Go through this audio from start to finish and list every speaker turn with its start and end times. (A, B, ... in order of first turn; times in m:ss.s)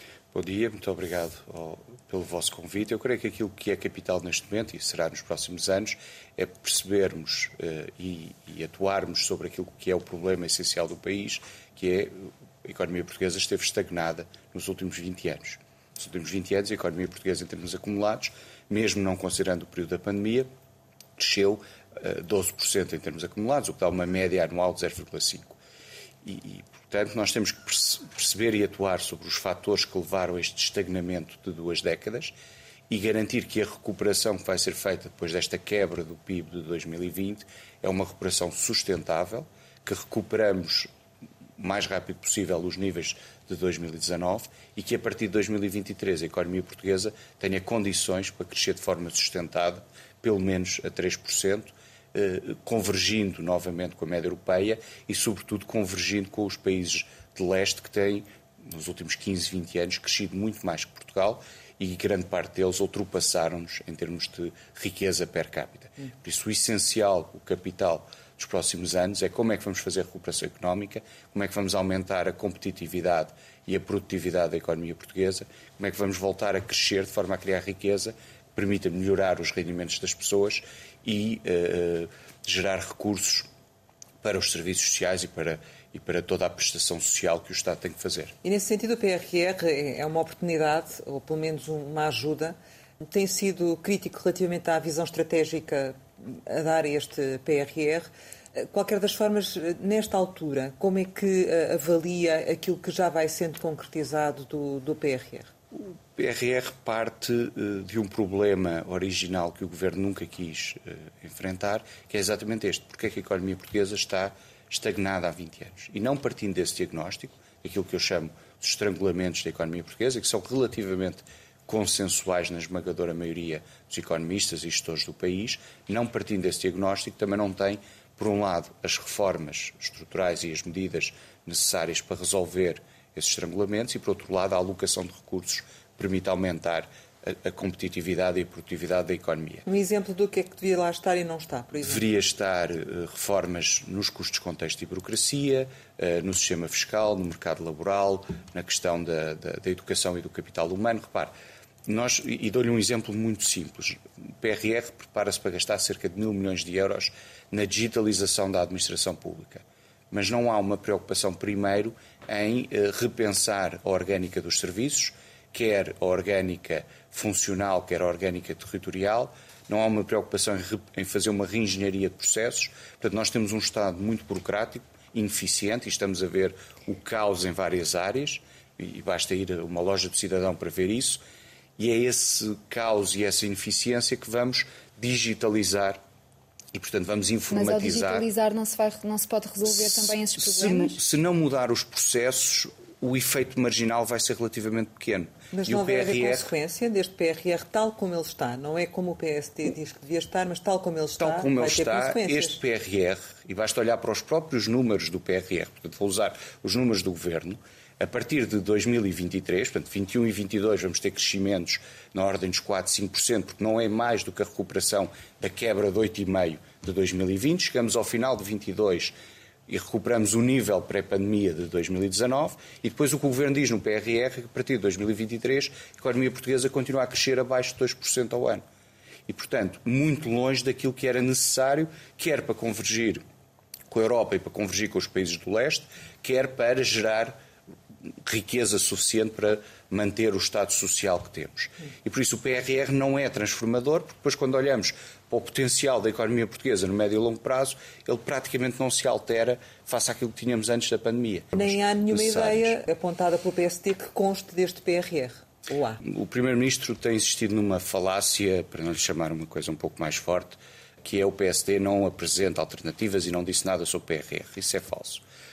0:00.3-0:20.5 A
0:21.2-0:25.6 A
0:26.2-0:32.3 A
0:32.9-0:40.9 A
0:41.6-1:23.5 A
1:24.2-1:28.3 A
1:28.4-1:32.6 B
1:33.1-1:45.5 B
1:45.7-2:19.6 A
2:19.6-2:22.0 B
2:21.8-2:31.3 A
2:31.8-3:01.2 A
3:01.8-3:06.0 A
3:06.7-3:08.3 A
3:07.5-3:11.0 C
3:09.6-3:16.5 A
3:15.5-3:22.6 B
3:21.2-3:39.1 A
3:39.7-3:48.6 A
3:49.3-3:53.2 A
3:53.9-3:57.3 A
3:58.2-4:12.8 A
4:11.5-4:16.0 B
4:16.0-4:25.2 A